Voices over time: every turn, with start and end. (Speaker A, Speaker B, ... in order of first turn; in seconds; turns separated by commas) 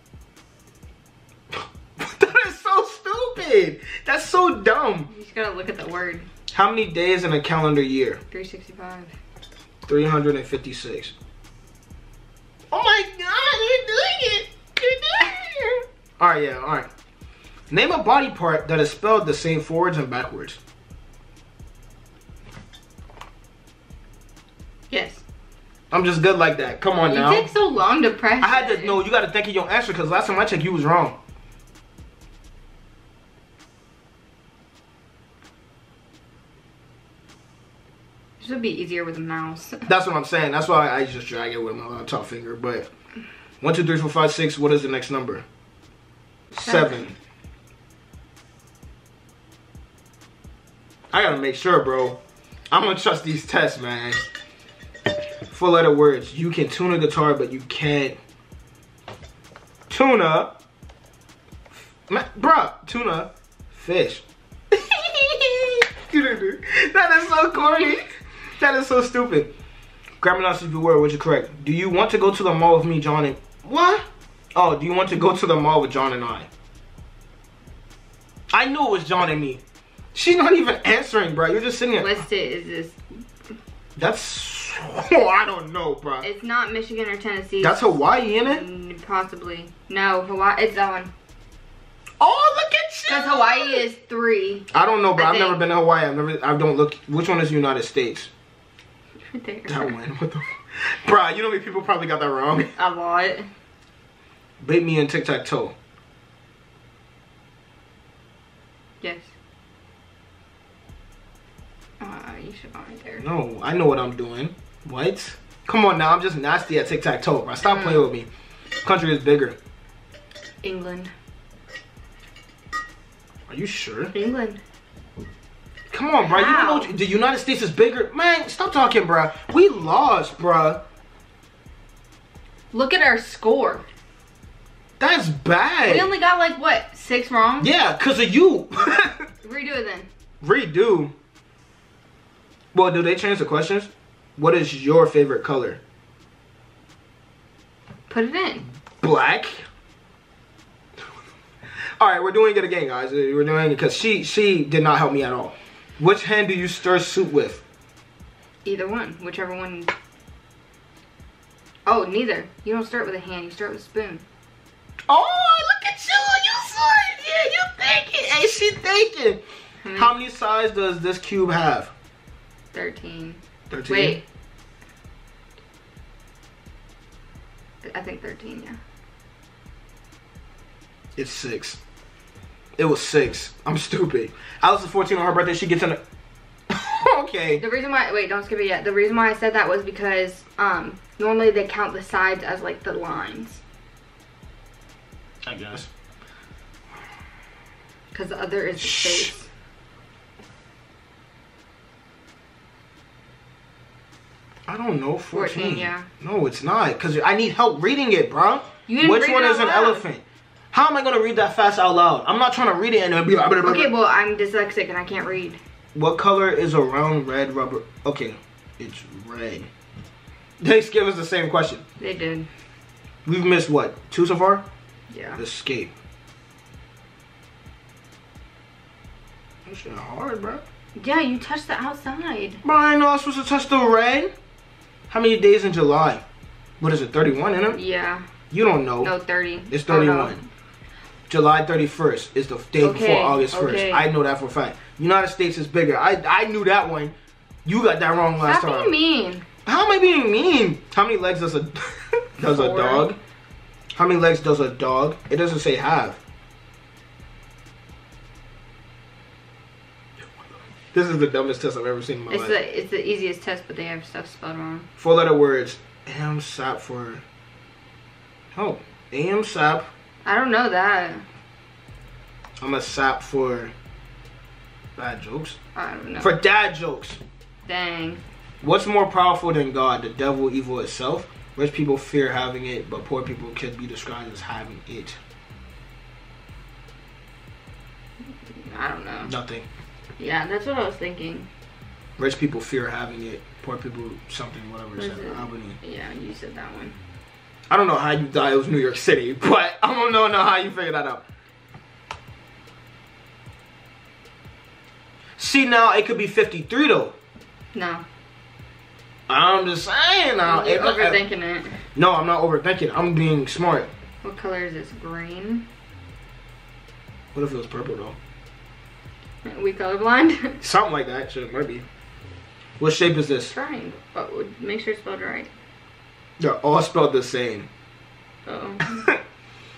Speaker A: 1.5-5.1, Speaker B: 5.1-6.3, Speaker A: 6.5-8.2, Speaker B: 8.3-9.1, Speaker A: 9.8-11.1, Speaker A: 12.7-16.9, Speaker A: 17.7-20.6, Speaker B: 24.9-25.2, Speaker A: 25.9-27.5, Speaker B: 27.1-29.0, Speaker A: 28.4-31.1, Speaker B: 38.4-39.9, Speaker A: 39.9-42.9, Speaker A: 43.6-45.4, Speaker A: 46.5-47.1, Speaker B: 46.6-47.1, Speaker A: 51.1-52.2, Speaker A: 52.7-54.2, Speaker A: 55.5-58.2, Speaker A: 59.9-60.5, Speaker A: 62.1-68.0, Speaker B: 67.5-68.0, Speaker A: 68.6-69.5, Speaker A: 70.2-76.5, Speaker A: 78.5-79.6, Speaker A: 80.1-82.2, Speaker B: 82.0-83.0, Speaker A: 84.0-86.3, Speaker B: 86.2-91.1, Speaker A: 87.6-88.6, Speaker A: 92.2-93.8, Speaker B: 93.1-95.6, Speaker A: 94.7-98.3, Speaker B: 99.3-100.0, Speaker A: 99.7-102.7, Speaker B: 102.8-103.5, Speaker A: 104.6-105.7, Speaker B: 109.0-109.3, Speaker B: 112.0-113.2, Speaker A: 113.2-118.3, Speaker B: 117.6-118.1, Speaker A: 118.8-119.5, Speaker B: 120.6-121.1, Speaker A: 123.5-124.1, Speaker B: 124.1-124.6, Speaker A: 125.9-130.8, Speaker B: 126.2-126.9, Speaker B: 132.7-133.8, Speaker A: 135.0-136.1, Speaker B: 135.8-137.7, Speaker A: 137.6-139.3, Speaker B: 139.4-140.1, Speaker A: 140.4-141.1, Speaker A: 142.7-145.8, Speaker B: 148.1-148.7, Speaker A: 149.0-149.6, Speaker A: 152.0-157.6, Speaker B: 158.6-159.9, Speaker B: 161.8-164.2, Speaker A: 165.1-169.4, Speaker B: 169.8-170.1, Speaker A: 169.9-171.9, Speaker B: 172.7-174.2, Speaker A: 173.7-174.2, Speaker B: 177.8-178.8, Speaker A: 181.2-181.8, Speaker A: 182.8-186.0, Speaker A: 186.7-187.6, Speaker B: 187.6-193.6, Speaker A: 195.4-195.9, Speaker B: 198.1-199.5, Speaker A: 198.8-199.3, Speaker A: 204.7-213.9, Speaker B: 205.3-206.1, Speaker B: 208.9-210.0, Speaker B: 213.6-215.6, Speaker A: 215.9-219.7, Speaker A: 220.6-221.8, Speaker B: 222.0-222.5, Speaker A: 223.2-224.6, Speaker B: 225.1-225.4, Speaker A: 225.3-225.9, Speaker A: 229.7-230.6, Speaker B: 230.9-232.6, Speaker A: 232.6-234.3, Speaker A: 235.1-236.2, Speaker A: 236.8-237.8, Speaker B: 237.7-238.2, Speaker A: 238.5-239.1, Speaker B: 239.0-240.4, Speaker A: 239.7-240.4, Speaker A: 241.3-247.1, Speaker B: 242.8-244.1, Speaker A: 247.6-248.9, Speaker B: 248.4-249.4, Speaker A: 249.7-253.2, Speaker B: 252.4-253.1, Speaker A: 253.9-256.2, Speaker A: 260.9-262.6, Speaker B: 262.3-264.9, Speaker A: 265.0-267.2, Speaker A: 268.5-269.9, Speaker B: 270.2-271.2, Speaker A: 272.6-273.7, Speaker A: 274.9-275.6, Speaker B: 275.7-276.4, Speaker A: 276.2-277.2, Speaker B: 277.6-278.2, Speaker A: 278.6-285.2, Speaker B: 288.6-289.3, Speaker A: 289.2-289.7, Speaker B: 290.2-291.5, Speaker A: 292.2-295.8, Speaker B: 294.9-297.0, Speaker A: 297.7-301.2, Speaker A: 305.4-307.1, Speaker B: 307.7-308.0, Speaker A: 309.3-311.2, Speaker B: 310.4-311.8, Speaker A: 311.9-313.9, Speaker B: 314.2-315.6, Speaker A: 317.3-318.1, Speaker B: 319.4-320.6, Speaker A: 320.6-321.9, Speaker A: 322.8-323.5, Speaker B: 323.5-325.5, Speaker A: 326.4-327.7, Speaker B: 328.4-329.1, Speaker A: 328.9-329.2